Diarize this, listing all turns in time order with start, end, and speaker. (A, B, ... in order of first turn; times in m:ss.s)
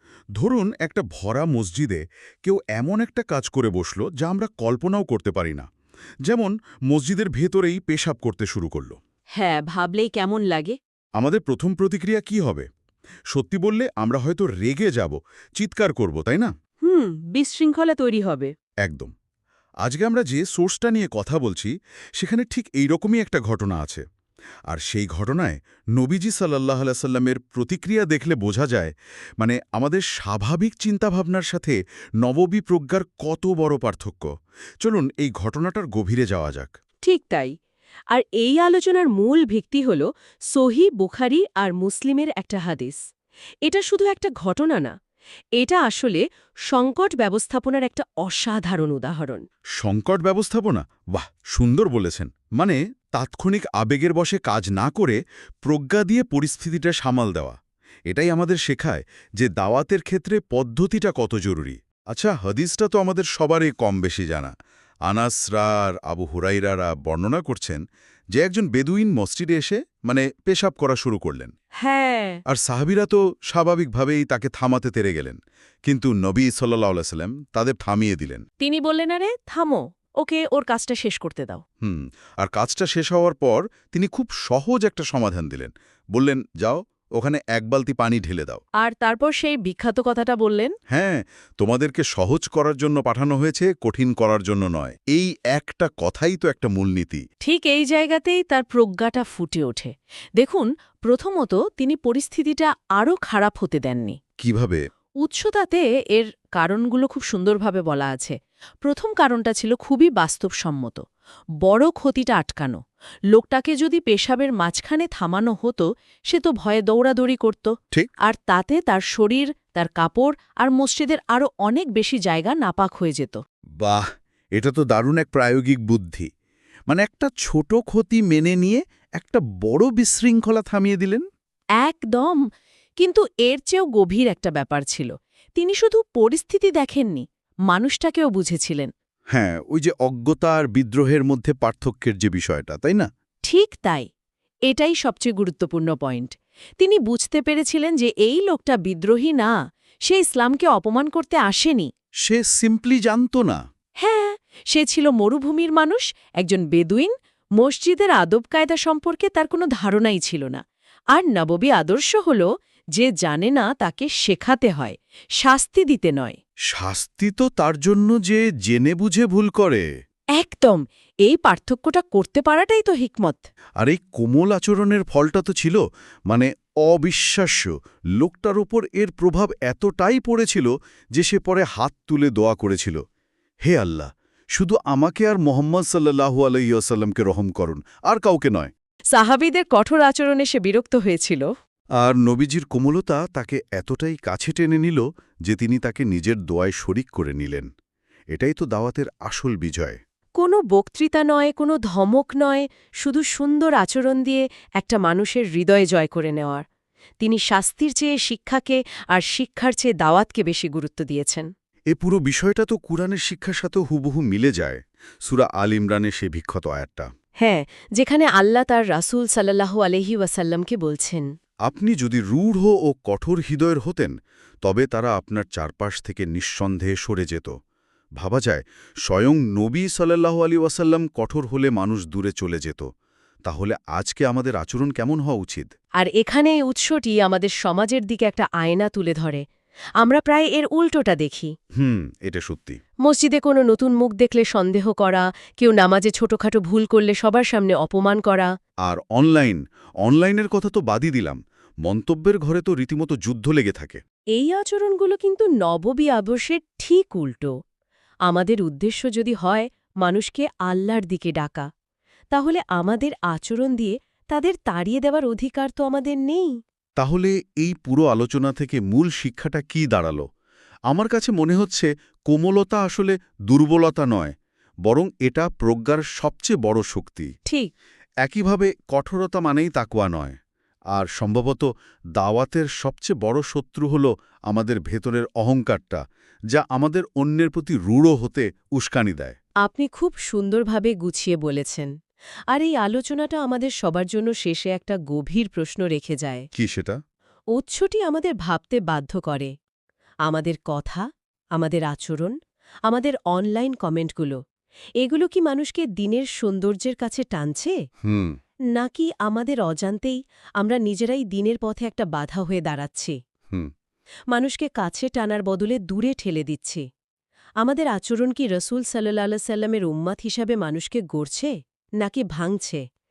0:00.4-0:05.6 A
0:06.2-0:09.0 A
0:09.3-0:10.8 B
0:11.2-0:12.7 A
0:13.3-0:16.5 A
0:16.8-0:18.5 B
0:18.8-0:19.1 A
0:19.8-0:24.0 A
0:24.7-0:34.3 A
0:34.8-0:36.7 A
0:37.0-0:37.5 B
0:38.1-0:43.0 B
0:43.6-0:44.9 B
0:45.6-0:49.4 B
0:49.8-0:57.6 A
0:58.1-1:04.5 A
1:05.1-1:07.8 A
1:08.3-1:11.5 A
1:11.8-1:12.4 B
1:12.5-1:18.4 A
1:18.6-1:21.6 B
1:21.8-1:28.6 A
1:28.8-1:30.7 B
1:30.9-1:37.2 A
1:37.4-1:44.2 B
1:44.4-1:44.8 A
1:45.2-1:51.0 B
1:51.6-1:52.8 B
1:53.3-2:03.4 B
2:03.8-2:06.3 A
2:06.9-2:11.2 A
2:11.8-2:12.4 B
2:13.0-2:18.9 B
2:19.3-2:23.1 A
2:23.4-2:24.1 B
2:24.7-2:29.5 B
2:30.0-2:31.9 B
2:32.2-2:33.6 A
2:34.0-2:40.6 B
2:41.1-2:46.4 B
2:46.7-2:49.8 A
2:50.4-2:53.4 B
2:53.8-3:03.0 A
3:03.6-3:08.7 A
3:09.1-3:11.5 B
3:12.0-3:17.7 A
3:18.3-3:20.0 A
3:20.4-3:26.6 B
3:27.2-3:31.5 B
3:31.9-3:37.1 A
3:37.4-3:41.2 B
3:41.6-3:47.5 A
3:48.2-3:52.9 A
3:53.4-3:55.7 A
3:56.0-3:59.4 B
4:00.0-4:01.5 B
4:01.8-4:02.8 A
4:03.0-4:08.5 B
4:08.8-4:14.0 A
4:14.3-4:17.5 B
4:18.3-4:21.6 B
4:22.3-4:26.5 B
4:27.0-4:30.2 A
4:30.9-4:34.3 A
4:34.8-4:37.3 A
4:37.4-4:37.7 B
4:38.2-4:40.4 A
4:40.9-4:49.4 A
4:49.6-4:51.9 B
4:52.5-4:56.5 B
4:56.5-4:57.0 A
4:57.5-4:59.5 B
5:00.2-5:01.0 B
5:01.6-5:02.3 B
5:02.9-5:04.4 B
5:05.0-5:07.7 B
5:08.0-5:08.4 A
5:08.7-5:13.2 B
5:14.3-5:16.8 B
5:17.6-5:22.8 B